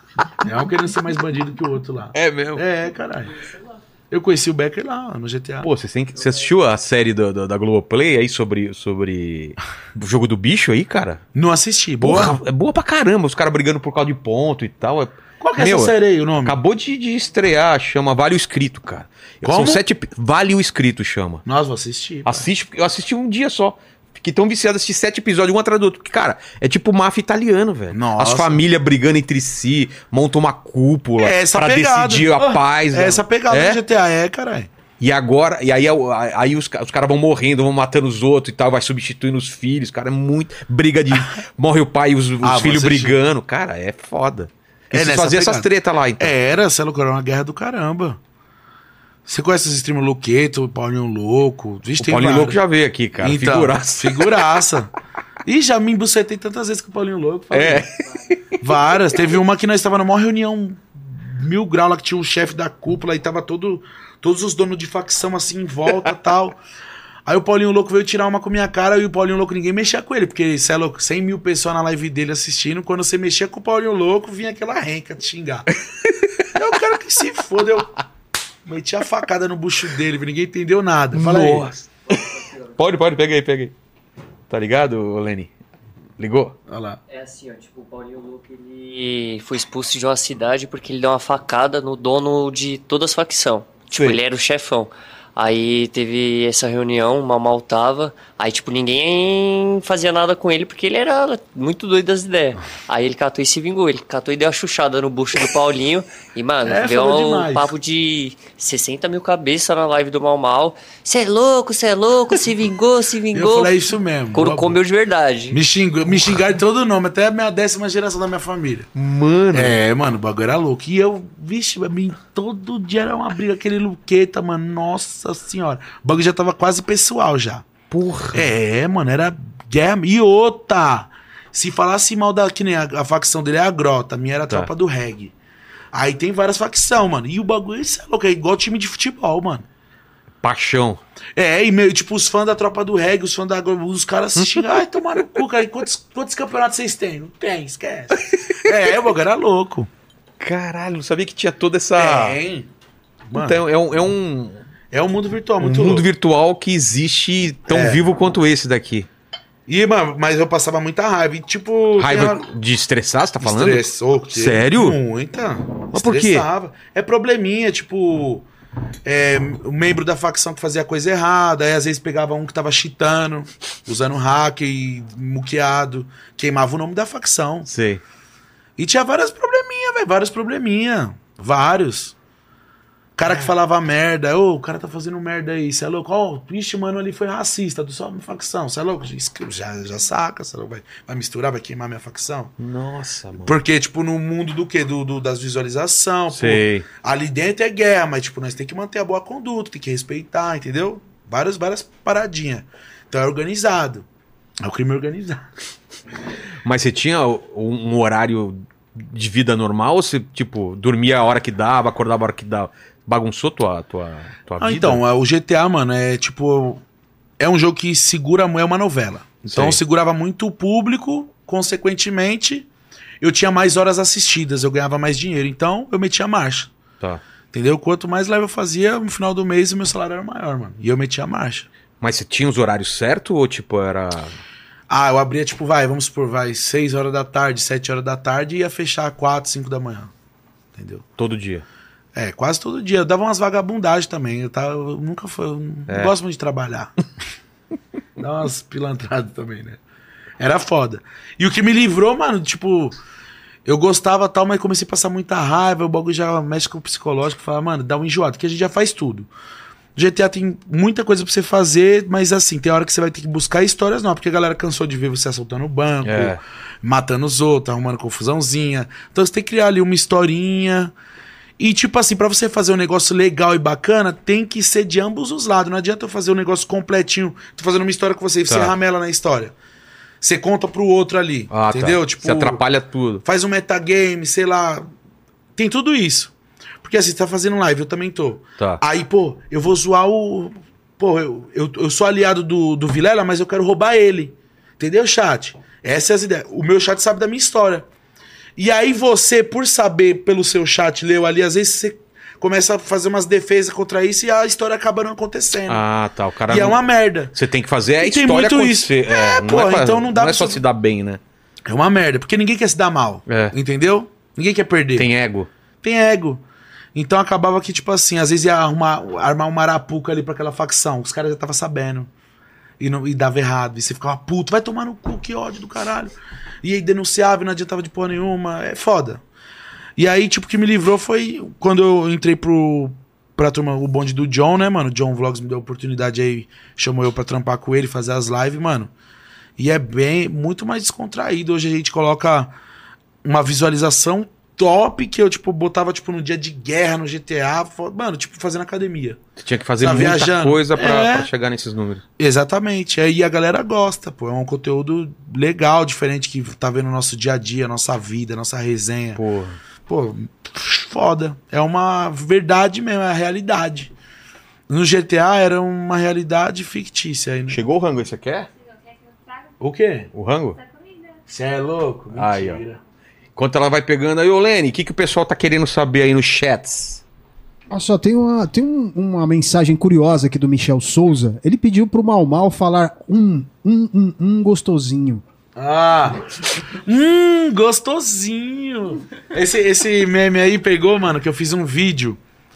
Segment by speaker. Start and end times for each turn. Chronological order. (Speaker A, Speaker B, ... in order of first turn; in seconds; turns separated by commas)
Speaker A: 0.4-3.4, Speaker B: 2.1-2.6, Speaker A: 4.1-5.7, Speaker B: 5.6-11.2, Speaker A: 11.3-12.4, Speaker B: 12.0-21.4, Speaker A: 15.4-16.6, Speaker A: 19.4-19.8, Speaker A: 21.4-22.5, Speaker B: 22.3-33.8, Speaker A: 27.9-28.7, Speaker A: 31.2-34.7, Speaker B: 35.0-46.3, Speaker A: 42.4-43.2, Speaker A: 44.9-48.2, Speaker A: 49.2-52.6, Speaker B: 52.0-54.6, Speaker A: 53.2-54.9, Speaker A: 55.5-57.9, Speaker B: 57.5-58.6, Speaker A: 58.6-66.6, Speaker A: 67.3-75.7, Speaker B: 75.9-76.5, Speaker A: 76.5-77.9, Speaker A: 78.7-81.7, Speaker B: 81.1-83.7, Speaker B: 84.5-85.5, Speaker B: 86.2-86.6, Speaker A: 86.7-87.0, Speaker C: 87.1-113.7, Speaker B: 93.9-94.2, Speaker A: 106.7-107.7, Speaker A: 113.3-114.8, Speaker C: 114.3-115.6, Speaker A: 115.5-118.9, Speaker B: 119.0-119.8, Speaker A: 119.5-127.7, Speaker B: 127.9-128.5, Speaker A: 128.3-135.3, Speaker A: 135.9-139.7, Speaker B: 140.4-141.0, Speaker A: 141.4-149.9, Speaker B: 144.4-145.3, Speaker B: 148.2-148.7, Speaker B: 150.4-152.4, Speaker A: 152.0-152.7, Speaker A: 153.3-153.6, Speaker B: 153.3-154.6, Speaker A: 154.9-156.1, Speaker B: 155.6-159.1, Speaker A: 157.7-158.1, Speaker A: 159.7-162.5, Speaker B: 162.0-165.0, Speaker A: 163.4-168.5, Speaker B: 165.9-166.5, Speaker A: 169.1-177.7, Speaker B: 177.7-178.0, Speaker A: 178.8-182.2, Speaker A: 183.2-192.5, Speaker B: 192.6-193.6, Speaker A: 193.4-204.1, Speaker B: 196.3-196.9, Speaker A: 204.6-205.5, Speaker B: 206.6-215.0, Speaker A: 214.6-216.8, Speaker A: 217.4-222.7, Speaker B: 219.5-219.8, Speaker A: 223.2-226.7, Speaker A: 227.5-231.7, Speaker B: 232.0-234.4, Speaker A: 234.9-240.1, Speaker A: 240.8-241.0, Speaker B: 241.2-241.7, Speaker A: 242.2-246.9, Speaker A: 248.2-249.8, Speaker A: 250.4-253.0, Speaker A: 253.7-259.3, Speaker A: 260.0-270.9, Speaker B: 266.0-266.4, Speaker A: 271.6-279.6, Speaker B: 278.5-278.7, Speaker A: 280.2-282.6, Speaker B: 281.5-283.2, Speaker A: 283.2-284.9, Speaker A: 285.6-297.9, Speaker A: 298.6-305.9, Speaker B: 305.7-311.2, Speaker A: 306.5-307.4, Speaker A: 308.0-310.6, Speaker A: 311.7-315.1, Speaker B: 313.3-313.6, Speaker B: 315.0-315.5, Speaker A: 315.8-316.4, Speaker A: 316.9-322.1, Speaker A: 322.8-326.1, Speaker A: 326.6-329.2, Speaker A: 330.0-338.9, Speaker A: 339.6-342.5, Speaker A: 343.2-349.2, Speaker B: 349.4-352.0, Speaker A: 349.8-351.3, Speaker A: 352.2-359.2, Speaker B: 359.2-359.6, Speaker A: 359.9-363.9, Speaker A: 364.7-367.6, Speaker B: 367.5-368.5, Speaker A: 369.6-370.1, Speaker B: 370.1-370.6, Speaker A: 371.3-372.8, Speaker B: 372.1-372.6, Speaker B: 373.4-377.0, Speaker D: 377.7-385.2, Speaker A: 385.6-392.2